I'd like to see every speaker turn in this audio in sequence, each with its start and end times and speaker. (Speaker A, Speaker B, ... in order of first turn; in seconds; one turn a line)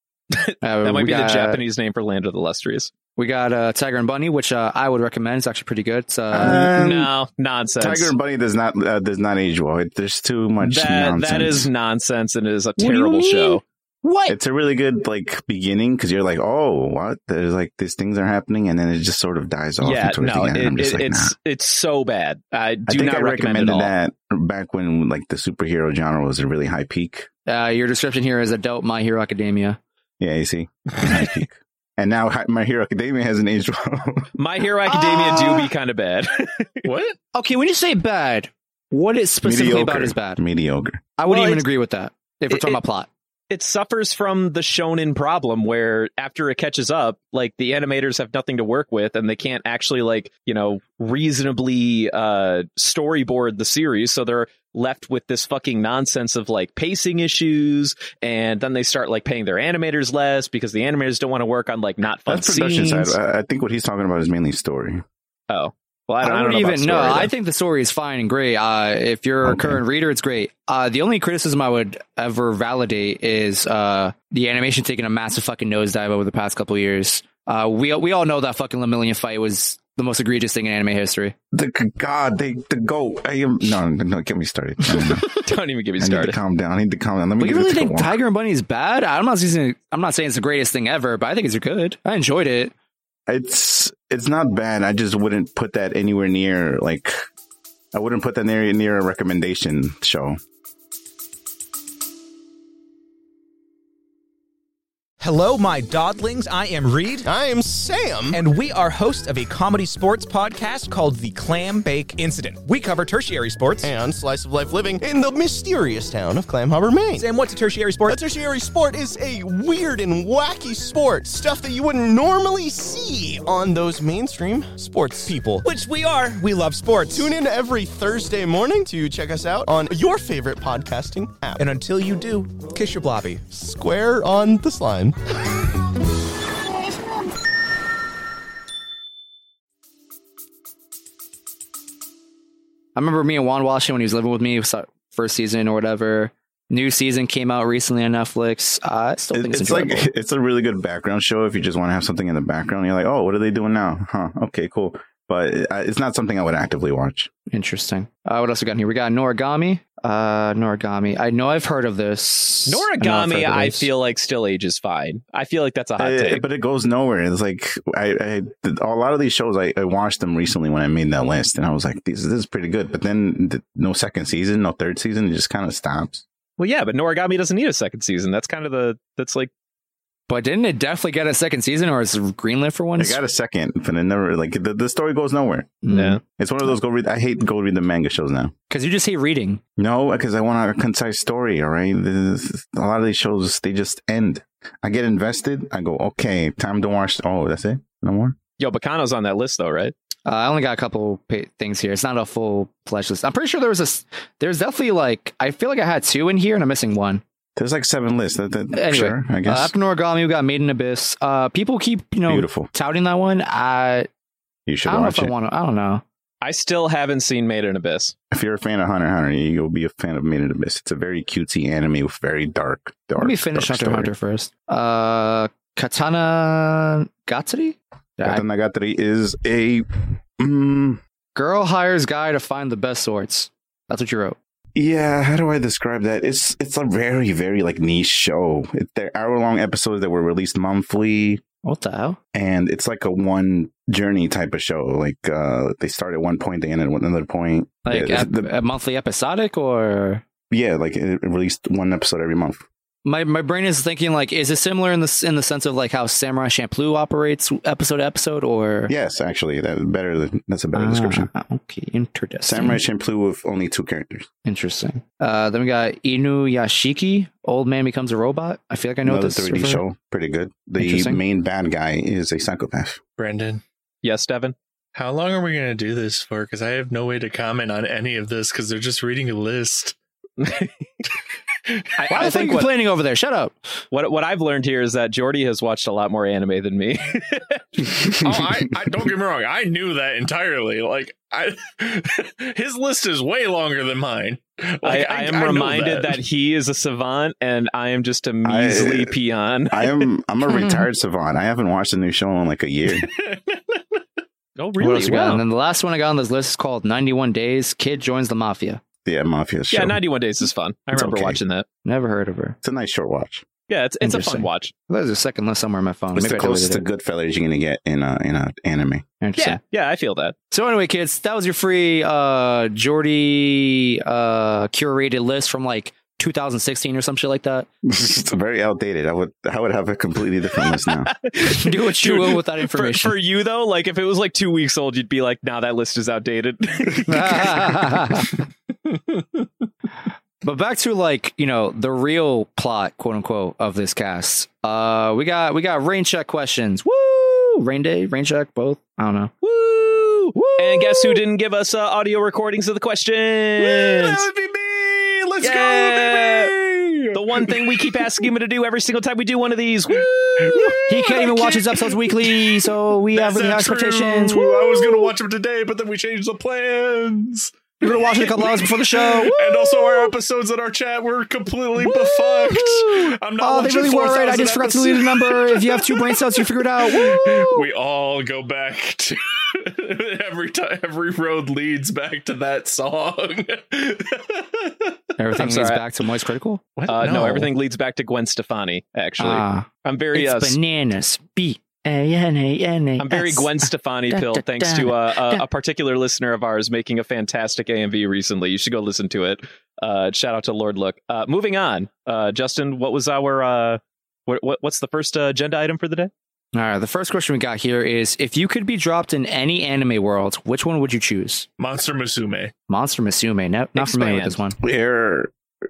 Speaker A: 0.3-2.9
Speaker B: 0.6-1.6
Speaker B: 3.1-6.7
Speaker C: 6.3-7.1
Speaker A: 6.4-8.1
Speaker C: 7.8-11.7
Speaker A: 10.6-13.6
Speaker B: 12.8-14.4
Speaker C: 14.3-21.3
Speaker A: 19.8-23.9
Speaker C: 22.9-27.3
Speaker B: 27.5-29.8
Speaker C: 30.2-34.3
Speaker A: 34.4-36.9
Speaker B: 34.9-35.7
Speaker D: 36.9-37.2
Speaker B: 37.4-40.4
Speaker C: 39.4-41.0
Speaker B: 41.2-43.1
Speaker A: 41.3-41.6
Speaker A: 42.5-42.8
Speaker A: 43.5-63.2
Speaker C: 62.3-65.0
Speaker A: 65.5-67.3
Speaker B: 66.2-81.3
Speaker C: 69.4-69.8
Speaker C: 81.5-85.3
Speaker A: 85.3-86.4
Speaker C: 86.0-88.2
Speaker B: 87.4-92.7
Speaker C: 93.3-97.2
Speaker C: 97.9-100.4
Speaker E: 105.2-107.3
Speaker F: 107.2-108.4
Speaker E: 108.3-113.9
Speaker F: 113.8-117.2
Speaker E: 117.1-118.2
Speaker F: 118.1-125.7
Speaker E: 125.6-127.3
Speaker F: 127.2-131.7
Speaker E: 131.6-133.4
Speaker F: 133.5-135.2
Speaker B: 143.0-150.1
Speaker C: 149.3-157.3
Speaker B: 157.5-163.9
Speaker A: 162.7-166.5
Speaker C: 166.0-176.2
Speaker A: 176.6-179.5
Speaker B: 180.3-183.2
Speaker C: 183.0-185.8
Speaker B: 185.8-186.2
Speaker A: 185.9-186.2
Speaker C: 186.4-188.5
Speaker B: 188.7-189.6
Speaker C: 189.8-198.4
Speaker A: 198.6-199.9
Speaker B: 200.2-207.2
Speaker C: 207.6-209.7
Speaker B: 208.7-214.1
Speaker C: 212.3-212.7
Speaker C: 214.7-215.3
Speaker B: 214.9-216.0
Speaker A: 216.4-218.1
Speaker C: 218.3-224.1
Speaker B: 223.2-228.4
Speaker C: 228.2-229.9
Speaker C: 230.4-231.0
Speaker B: 231.3-234.4
Speaker C: 234.8-241.4
Speaker B: 241.6-242.2
Speaker C: 242.3-248.5
Speaker B: 247.8-250.2
Speaker C: 250.5-252.6
Speaker B: 253.0-258.9
Speaker C: 258.9-261.3
Speaker B: 260.8-262.8
Speaker C: 262.4-264.3
Speaker B: 264.4-269.8
Speaker C: 269.0-273.0
Speaker B: 270.8-271.2
Speaker D: 273.2-273.6
Speaker A: 274.0-274.5
Speaker D: 274.9-280.0
Speaker A: 280.4-280.7
Speaker A: 282.0-282.7
Speaker B: 282.1-283.5
Speaker A: 283.9-287.6
Speaker D: 288.2-296.2
Speaker A: 294.8-299.8
Speaker C: 298.4-299.1
Speaker C: 299.7-303.1
Speaker B: 300.5-300.9
Speaker D: 303.0-304.0
Speaker A: 304.6-305.4
Speaker B: 304.8-308.8
Speaker C: 309.0-310.0
Speaker A: 309.7-311.6
Speaker C: 310.9-311.4
Speaker B: 311.9-312.6
Speaker C: 312.6-313.4
Speaker A: 313.7-314.7
Speaker B: 314.0-316.8
Speaker C: 316.1-319.0
Speaker B: 319.2-319.6
Speaker A: 319.4-320.4
Speaker B: 320.5-327.7
Speaker C: 327.8-331.1
Speaker A: 330.7-337.8
Speaker B: 331.4-333.1
Speaker B: 337.1-338.4
Speaker D: 338.9-339.4
Speaker B: 340.4-349.3
Speaker A: 349.4-354.3
Speaker B: 350.4-351.2
Speaker D: 353.6-358.1
Speaker A: 355.4-356.5
Speaker A: 357.1-360.8
Speaker D: 359.9-384.9
Speaker B: 360.9-365.1
Speaker B: 367.8-370.1
Speaker B: 371.8-377.6
Speaker B: 385.2-386.6
Speaker A: 385.4-385.8
Speaker D: 386.8-387.5
Speaker A: 386.9-390.6
Speaker B: 389.2-395.4
Speaker A: 393.0-406.1
Speaker B: 406.5-411.5
Speaker D: 411.6-412.5
Speaker B: 412.7-414.6
Speaker A: 413.8-414.4
Speaker C: 414.6-415.3